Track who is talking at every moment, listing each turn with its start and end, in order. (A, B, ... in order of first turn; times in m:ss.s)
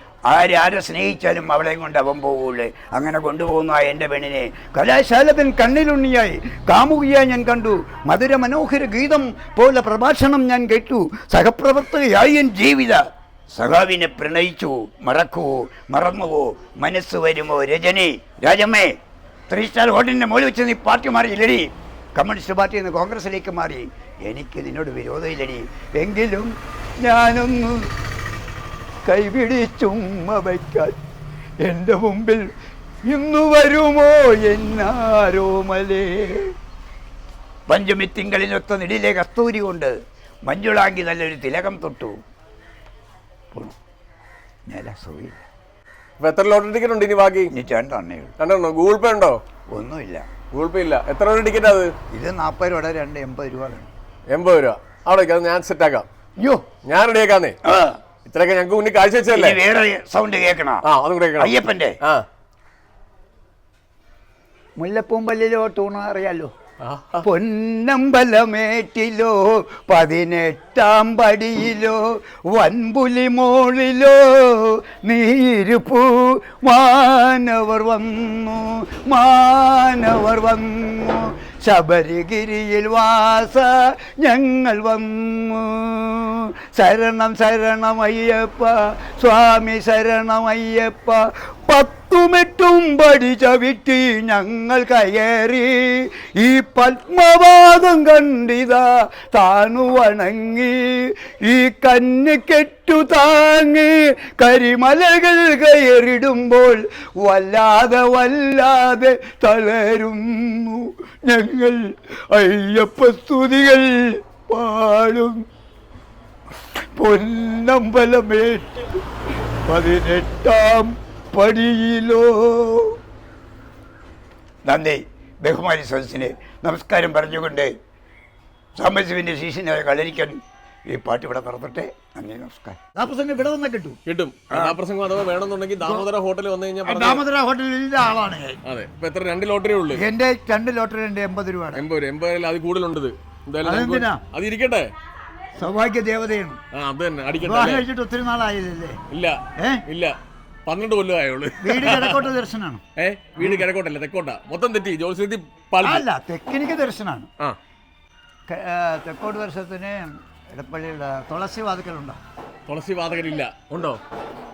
0:00.3-0:19.0 A
0:19.5-0:27.9 A
0:29.0-0:31.0 A
0:31.6-0:32.5 A
0:33.0-0:36.5 A
0:37.7-0:40.0 A
0:40.5-0:42.2 A
0:44.7-0:45.4 A
0:46.2-0:47.5 B
0:47.5-0:48.3 A
0:48.4-0:49.4 B
0:49.7-0:50.2 A
0:50.5-0:51.9 B
0:52.1-0:53.9 A
0:54.3-0:56.1 B
0:56.4-0:56.6 A
0:56.9-0:57.6 B
0:57.6-0:58.0 A
0:58.3-0:59.6 B
0:59.3-1:00.8 A
1:00.8-1:01.5 B
1:01.4-1:02.0 A
1:04.8-1:06.5 A
1:06.8-1:07.2 B
1:07.2-1:55.4 A
1:57.0-1:59.0 A
1:59.7-2:03.0 A
2:04.6-2:07.7 A
2:08.8-2:10.4 A
2:10.9-2:14.0 A
2:14.1-2:17.2 B
2:14.5-2:14.8 A
2:16.8-2:18.6 A
2:18.6-2:20.0 B
2:20.0-2:21.8 A
2:21.7-2:24.9 B
2:23.6-2:24.2 A
2:25.6-2:26.6 A
2:26.7-2:27.8 B
2:27.4-2:29.0 A
2:29.1-2:32.3 B
2:29.6-2:29.8 A
2:31.6-2:32.8 A
2:33.0-2:36.0 B
2:35.8-2:37.3 A
2:38.5-2:42.2 A
2:42.7-2:44.0 B